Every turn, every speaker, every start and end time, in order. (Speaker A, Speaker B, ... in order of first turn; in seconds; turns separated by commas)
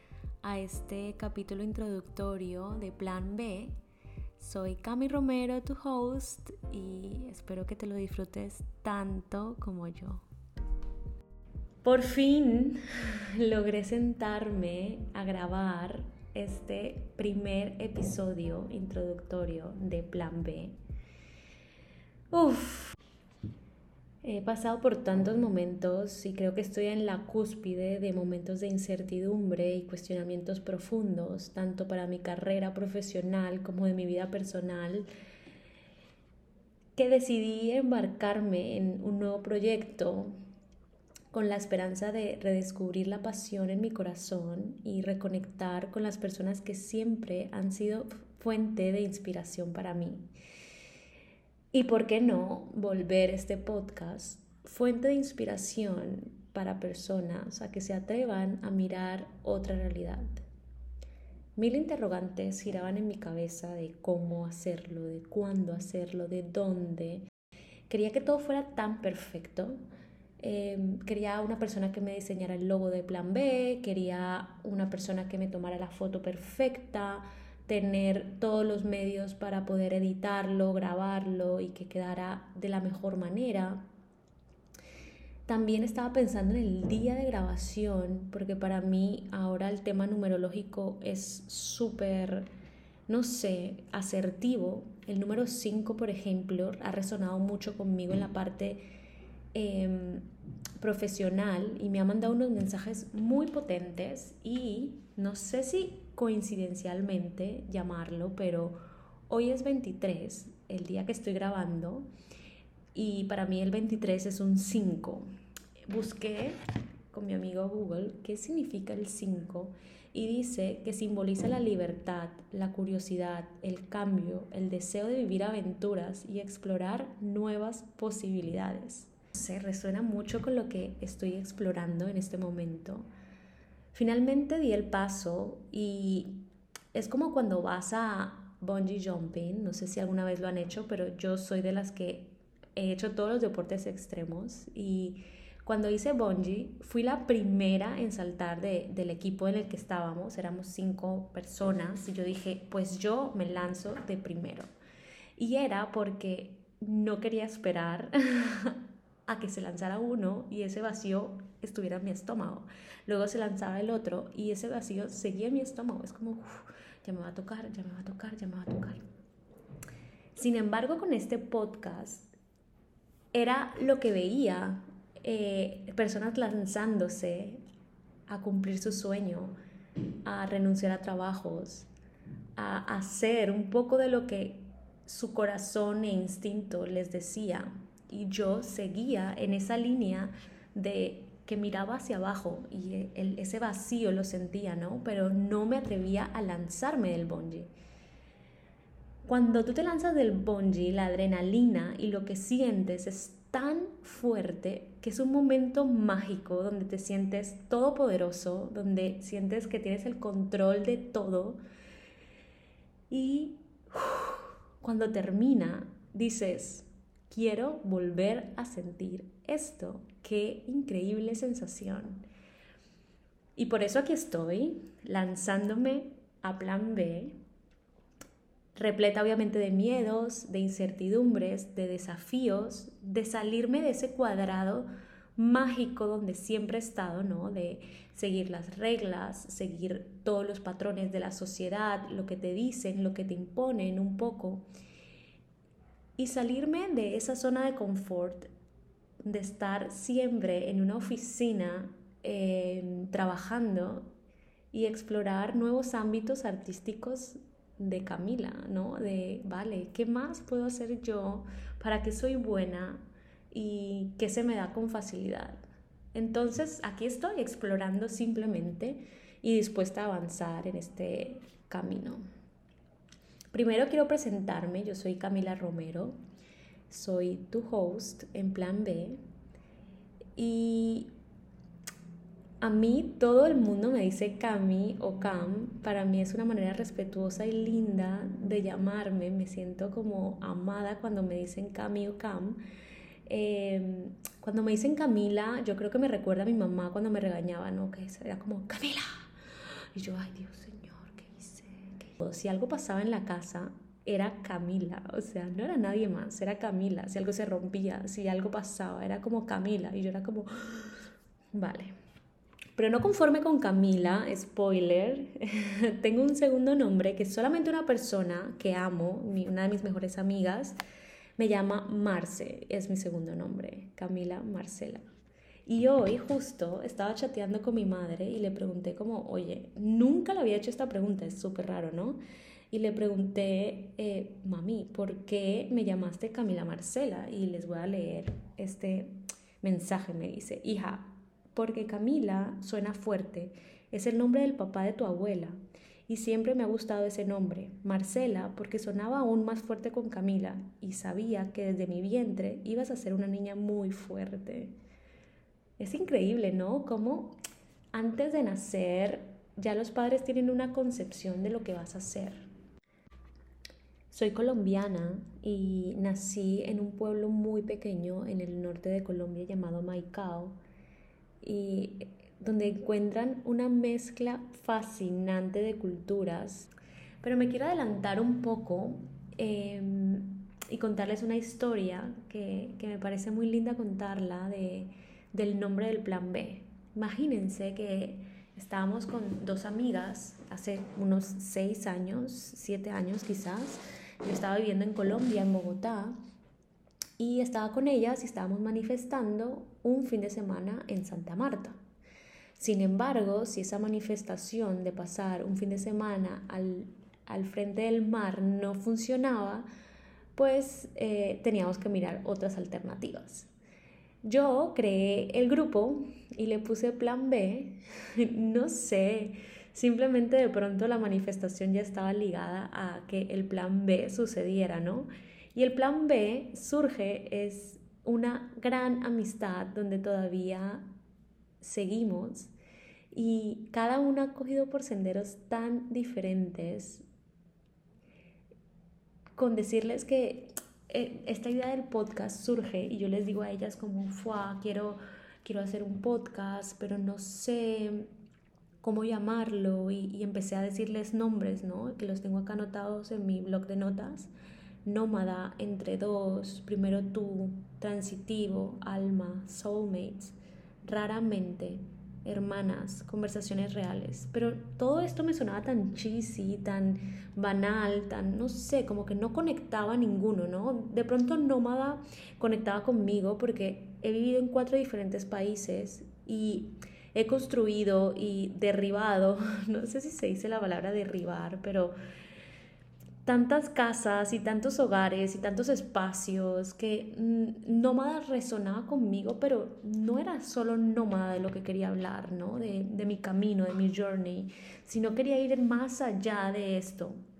Speaker A: 0.4-3.8, Speaker A: 4.4-10.3, Speaker A: 11.8-20.8, Speaker A: 22.3-22.9, Speaker A: 24.2-35.1, Speaker A: 37.0-40.3, Speaker A: 41.3-50.2, Speaker A: 51.7-60.4, Speaker A: 61.6-67.3, Speaker A: 67.9-69.8, Speaker A: 70.4-83.9, Speaker A: 85.5-92.5, Speaker A: 93.1-98.8, Speaker A: 99.5-100.3, Speaker A: 100.8-112.1, Speaker A: 112.9-115.3, Speaker A: 115.9-116.6, Speaker A: 117.1-133.1, Speaker A: 133.9-154.7, Speaker A: 155.4-169.0, Speaker A: 170.4-172.3, Speaker A: 173.3-177.6, Speaker A: 178.3-179.6, Speaker A: 180.2-181.9, Speaker A: 182.6-197.7, Speaker A: 199.3-211.6, Speaker A: 213.1-222.3, Speaker A: 223.6-227.4, Speaker A: 228.8-244.7, Speaker A: 246.2-248.5, Speaker A: 249.2-254.1, Speaker A: 254.7-265.6, Speaker A: 266.1-272.2, Speaker A: 273.5-276.2, Speaker A: 276.9-279.2, Speaker A: 280.4-281.1, Speaker A: 282.6-292.6, Speaker A: 293.3-299.3, Speaker A: 299.9-311.9, Speaker A: 312.8-320.8, Speaker A: 321.4-325.0, Speaker A: 325.7-332.2, Speaker A: 332.7-354.8, Speaker A: 355.8-357.4, Speaker A: 357.9-362.5, Speaker A: 364.1-370.6, Speaker A: 371.4-396.2, Speaker A: 397.2-401.8, Speaker A: 402.6-409.7, Speaker A: 410.4-413.5, Speaker A: 414.2-430.9, Speaker A: 431.6-432.5, Speaker A: 433.1-437.1, Speaker A: 439.4-448.1, Speaker A: 448.8-454.3, Speaker A: 454.9-481.9, Speaker A: 483.2-497.2